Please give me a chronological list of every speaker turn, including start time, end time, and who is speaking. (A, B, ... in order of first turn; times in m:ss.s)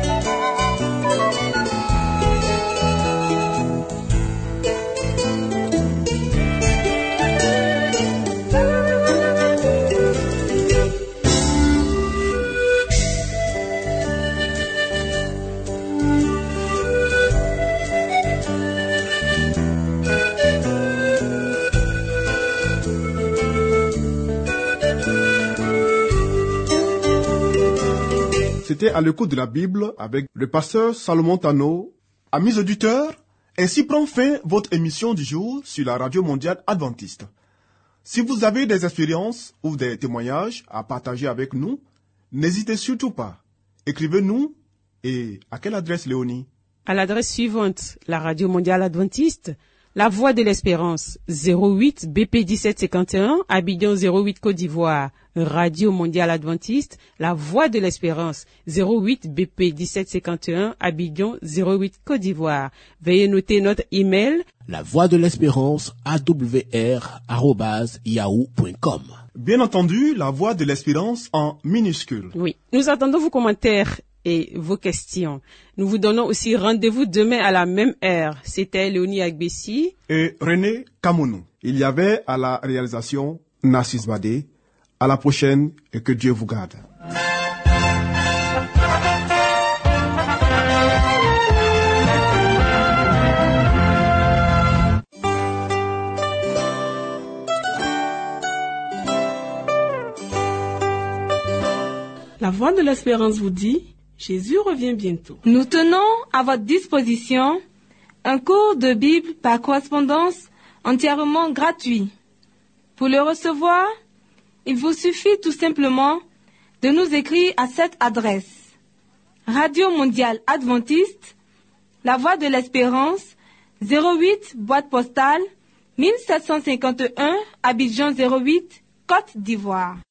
0:28.6-0:37.3 A
0:38.0-0:41.8 A
0:42.3-0:46.5 A
0:46.9-1:04.5 B
1:04.6-1:09.1 C
1:09.4-1:12.3 A
1:12.3-1:19.9 B
1:20.1-1:24.5 A
1:25.0-1:26.8 A
1:42.4-1:45.4 D
1:45.4-1:47.6 E
1:48.2-1:52.1 E
1:53.0-1:53.9 E
1:54.6-1:56.2 E
1:56.8-1:58.6 E
1:59.5-2:01.3 E
2:02.0-2:05.4 E
2:06.0-2:10.0 E